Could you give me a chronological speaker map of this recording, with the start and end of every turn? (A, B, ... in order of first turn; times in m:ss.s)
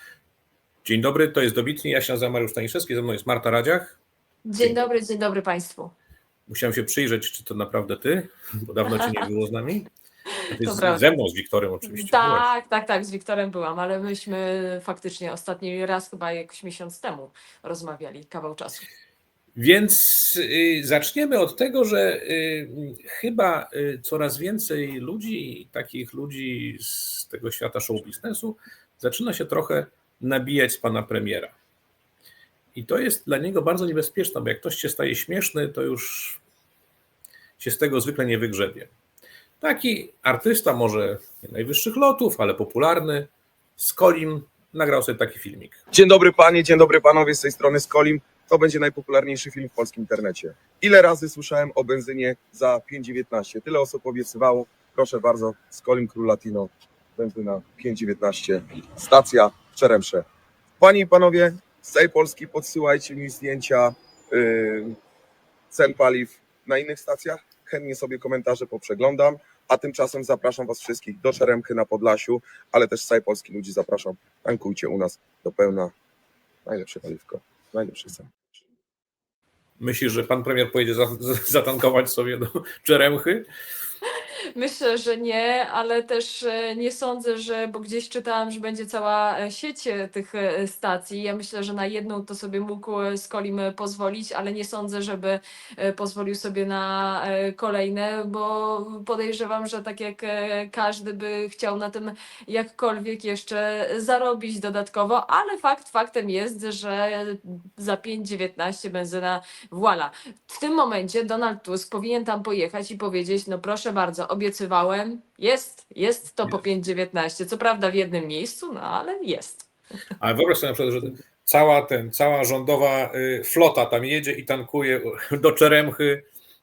0:00.8-0:04.0 A
0:04.4-0:05.9 B
0:06.5-0:09.9 A
0:10.3-0:11.0 B
0:10.5-0:12.4 A
0:11.9-0:18.9 B
0:19.6-0:31.5 A
0:32.7-0:36.4 A
0:37.6-0:38.9 A
0:39.6-0:45.8 A
0:45.9-1:00.2 C
1:00.8-1:05.0 C
1:05.7-1:15.9 C
1:16.6-1:18.4 C
1:19.8-1:23.5 A
1:24.0-1:59.6 B
2:00.2-2:06.2 A